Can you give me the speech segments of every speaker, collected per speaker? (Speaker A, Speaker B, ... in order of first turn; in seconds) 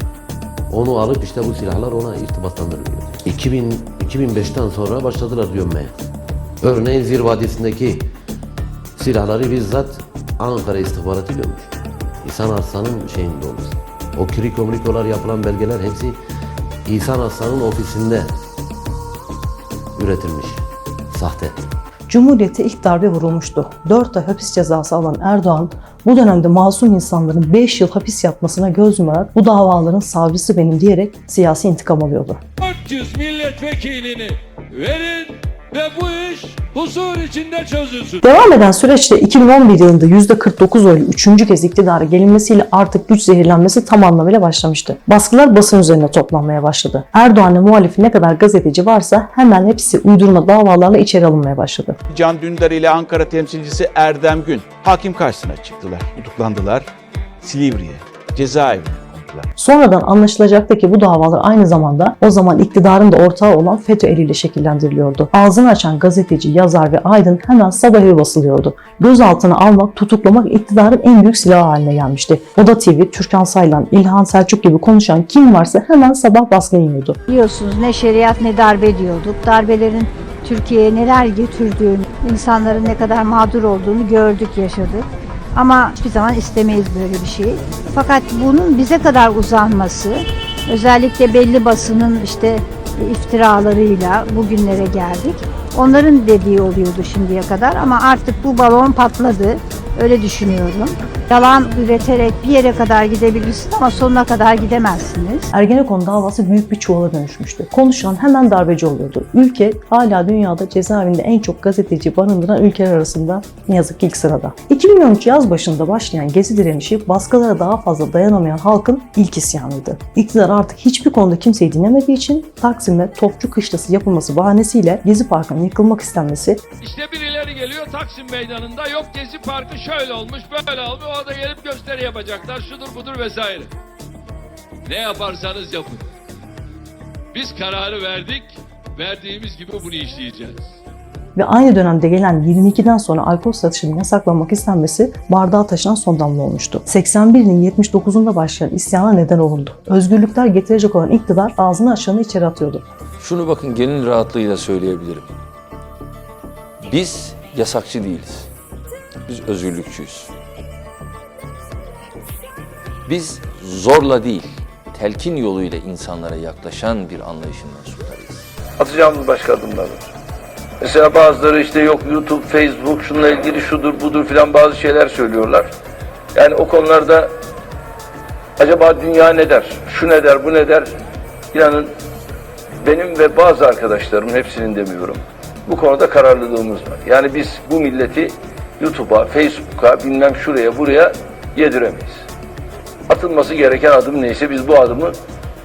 Speaker A: 0.7-5.9, 6.6-8.1, 9.0-11.7, 12.2-16.2, 16.9-18.3, 19.9-21.6
Speaker B: 22.1-32.4, 38.2-52.0, 59.5-77.2, 105.5-126.6, 141.3-152.8
Speaker C: 32.7-38.1, 128.2-128.9, 135.5-135.8, 137.3-138.4, 139.0-140.3
Speaker D: 52.1-56.9, 57.4-59.5
Speaker E: 77.3-105.5
Speaker F: 153.2-155.3, 156.8-158.5, 159.2-160.3, 163.1-168.5
Speaker G: 168.8-170.0, 170.8-175.7, 176.3-177.3, 178.6-180.9, 181.5-181.9, 182.8-192.2, 193.1-195.1